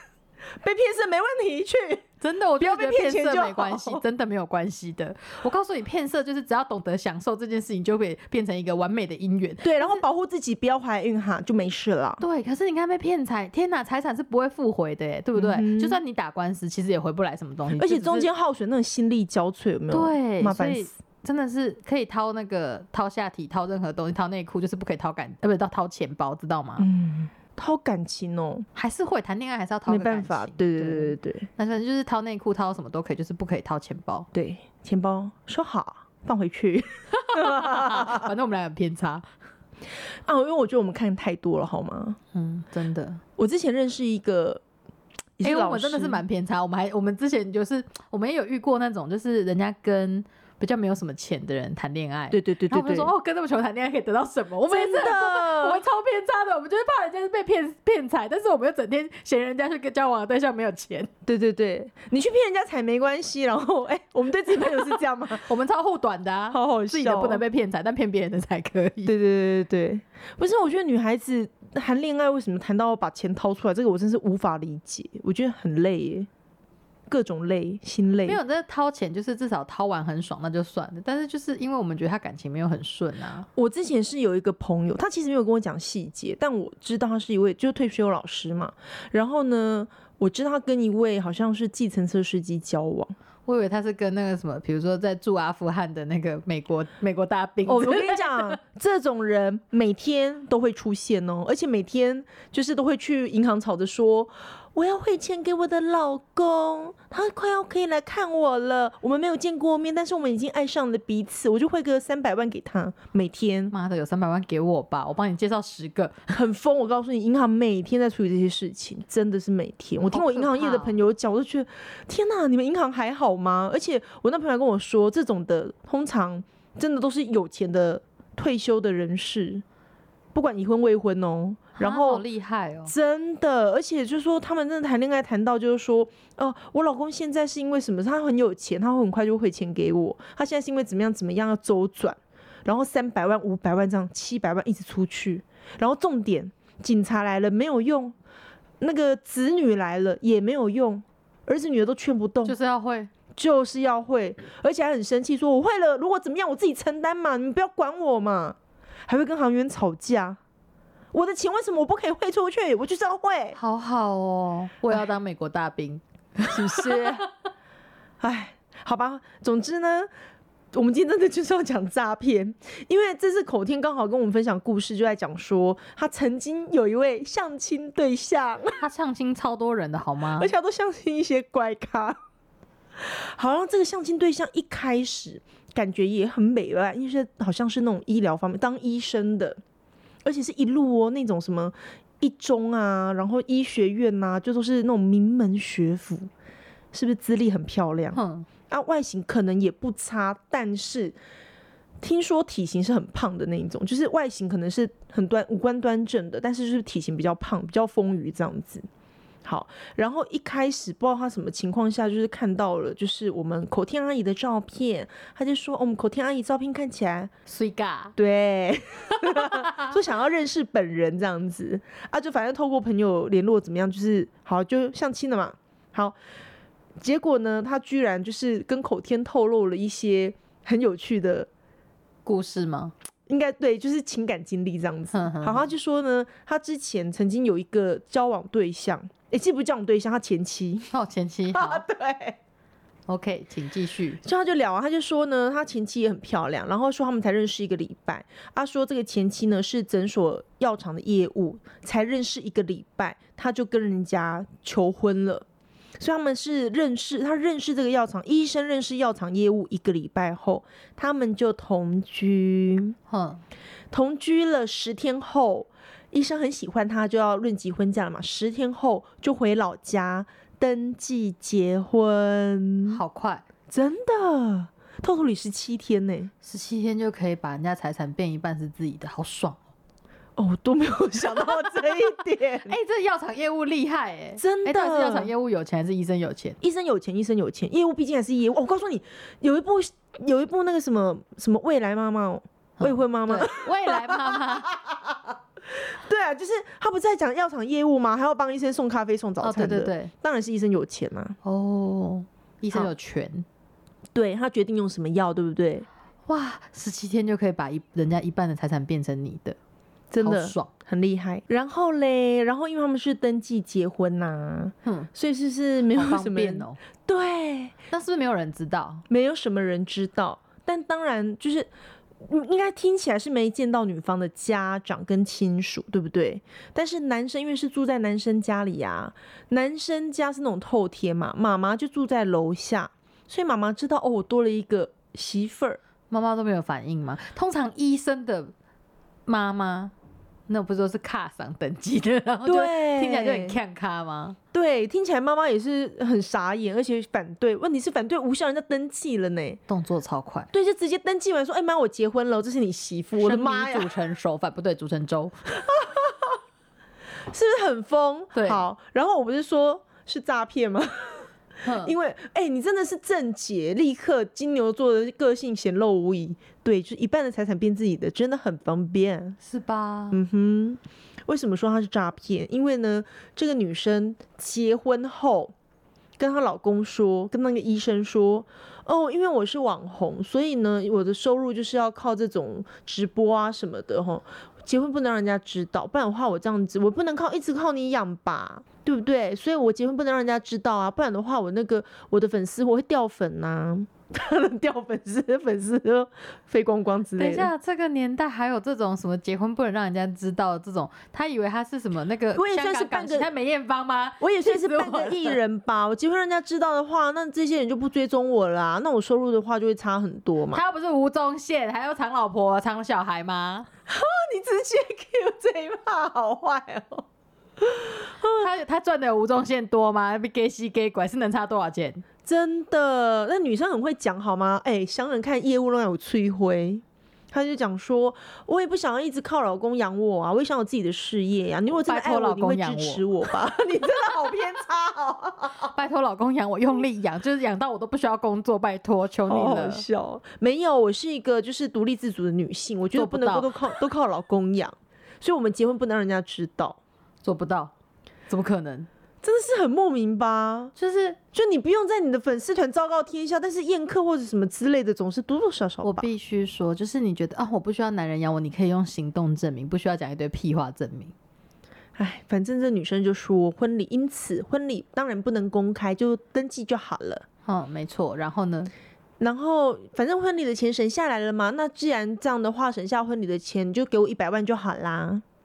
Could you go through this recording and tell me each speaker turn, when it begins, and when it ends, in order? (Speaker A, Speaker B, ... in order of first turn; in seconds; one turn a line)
Speaker A: 0.6-2.1
Speaker B: 2.2-10.0
Speaker A: 2.6-4.0
Speaker A: 9.6-12.2
Speaker B: 12.2-18.3
Speaker A: 15.3-16.0
Speaker A: 17.8-20.9
Speaker B: 19.9-26.9
Speaker A: 26.8-28.7
Speaker B: 28.8-34.3
Speaker A: 29.9-31.5
Speaker A: 34.3-38.3
Speaker B: 37.1-39.2
Speaker A: 40.2-42.2
Speaker B: 42.3-43.2
Speaker A: 43.4-44.6
Speaker A: 45.4-46.2
Speaker B: 45.4-61.1
Speaker A: 52.3-53.1
Speaker A: 54.7-55.8
Speaker A: 61.2-65.5
Speaker B: 65.3-69.1
Speaker A: 66.5-67.4
Speaker A: 69.1-76.3
Speaker A: 77.1-78.4
Speaker B: 78.2-83.5
Speaker A: 83.5-93.1
Speaker B: 93.5-98.6
Speaker A: 97.7-113.7
Speaker B: 113.7-116.4
Speaker A: 116.3-129.6
Speaker B: 120.1-121.0
Speaker A: 130.3-132.2
Speaker B: 131.8-132.9
Speaker A: 132.8-148.2
Speaker A: 148.8-152.6
Speaker B: 152.4-153.1
Speaker A: 153.3-160.4
Speaker A: 161.1-163.6
Speaker B: 163.6-167.2
Speaker A: 166.5-167.3
Speaker A: 168.2-170.1
Speaker A: 170.7-178.8
Speaker B: 178.8-180.5
Speaker A: 180.4-182.2
Speaker A: 183.0-189.6
Speaker A: 190.2-196.3
Speaker A: 196.9-201.2
Speaker B: 198.1-198.5
Speaker A: 202.0-208.8
Speaker A: 209.4-217.3
Speaker B: 217.5-218.2
Speaker A: 218.2-226.2
Speaker B: 219.2-219.9
Speaker A: 227.0-231.5
Speaker B: 232.3-232.9
Speaker A: 233.3-240.9
Speaker B: 235.1-235.7
Speaker B: 240.9-241.8
Speaker A: 241.5-242.4
Speaker B: 243.1-244.2
Speaker A: 244.2-255.4
Speaker A: 256.0-262.9
Speaker B: 263.1-263.4
Speaker A: 263.9-273.0
Speaker B: 272.9-273.4
Speaker A: 273.7-276.3
Speaker B: 276.4-279.6
Speaker A: 280.4-282.7
Speaker B: 282.7-286.6
Speaker A: 284.4-285.3
Speaker A: 286.6-301.4
Speaker B: 292.8-294.7
Speaker B: 299.4-300.1
Speaker B: 301.4-303.4
Speaker A: 304.1-305.9
Speaker B: 306.3-309.6
Speaker A: 310.1-317.8
Speaker B: 310.2-310.7
Speaker B: 314.8-315.1
Speaker B: 315.9-316.8
Speaker B: 317.9-319.1
Speaker A: 319.1-321.7
Speaker A: 322.2-335.8
Speaker B: 336.1-338.5
Speaker B: 339.3-339.9
Speaker B: 340.5-344.4
Speaker A: 342.4-343.6
Speaker A: 344.5-349.6
Speaker B: 349.7-350.5
Speaker A: 350.5-353.9
Speaker B: 353.2-355.4
Speaker A: 355.6-356.4
Speaker A: 357.3-369.4
Speaker B: 358.3-358.6
Speaker B: 361.6-361.9
Speaker B: 369.4-370.2
Speaker A: 370.1-375.5
Speaker A: 376.2-397.5
Speaker B: 397.2-405.4
Speaker A: 402.4-403.3
Speaker A: 404.2-410.6
Speaker B: 410.5-413.7
Speaker A: 413.9-417.1
Speaker A: 417.6-418.4
Speaker B: 418.4-422.0
Speaker A: 422.2-435.7
Speaker B: 431.8-433.1
Speaker B: 435.6-439.8
Speaker A: 439.3-446.8
Speaker B: 442.9-443.6
Speaker B: 447.2-447.7
Speaker B: 448.3-448.9
Speaker A: 449.2-450.7
Speaker B: 450.8-451.2
Speaker A: 451.3-456.1
Speaker B: 455.8-461.1
Speaker A: 461.9-467.2
Speaker B: 467.4-468.7
Speaker A: 469.2-475.2